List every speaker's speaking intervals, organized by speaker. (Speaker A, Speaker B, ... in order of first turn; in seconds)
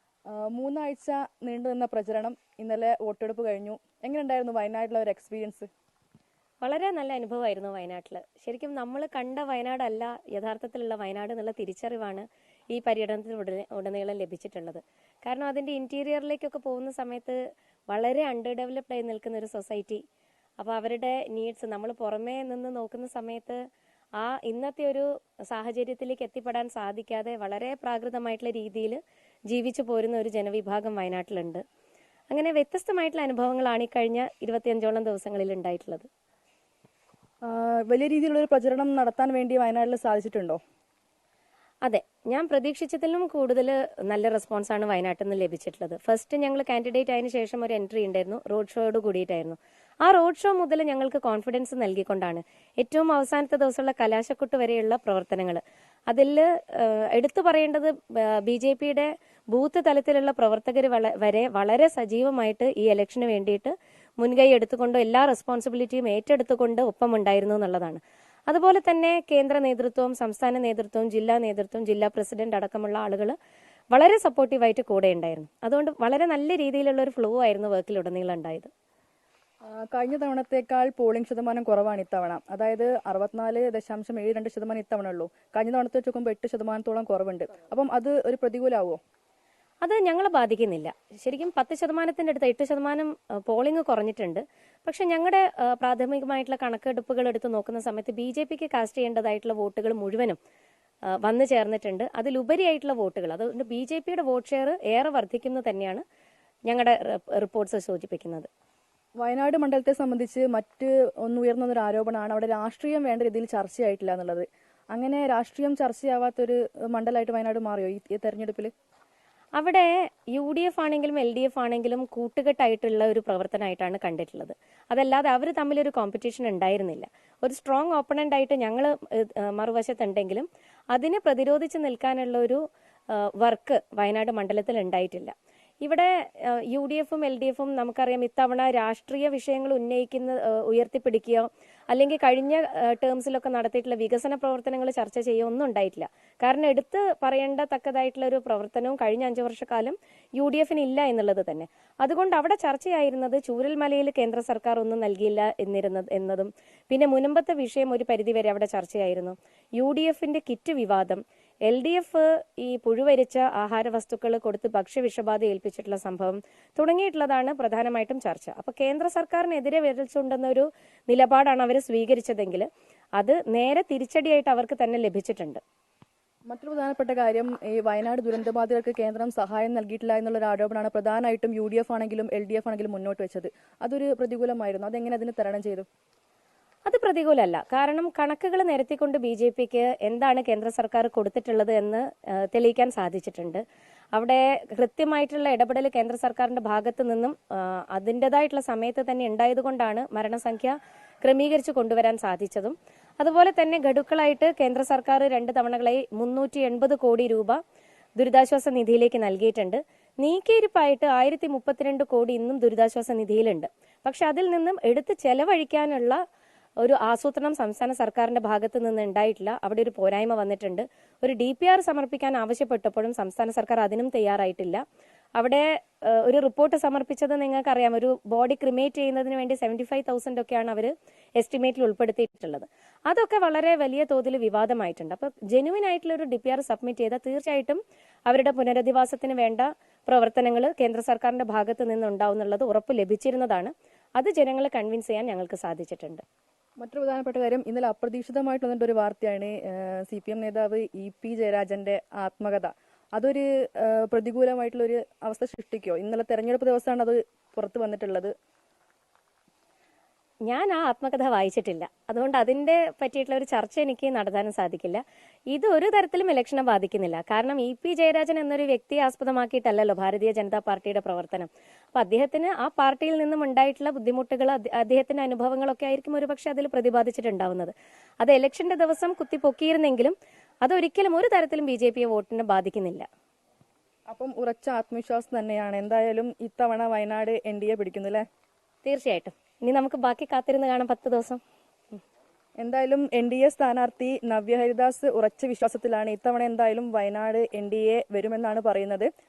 Speaker A: 0.3-5.7, 37.4-40.6, 79.7-89.0, 109.2-118.7, 176.5-185.9, 246.8-258.3, 284.1-288.2, 292.6-299.1
Speaker B: 6.6-20.0, 20.6-23.6, 24.2-31.6, 32.3-36.1, 41.8-73.3, 73.9-78.7, 89.8-100.4, 101.2-106.0, 106.7-108.5, 119.5-175.6, 186.8-193.6, 194.1-207.6, 208.2-216.2, 216.8-224.8, 225.4-246.2, 260.5-283.1, 288.8-291.4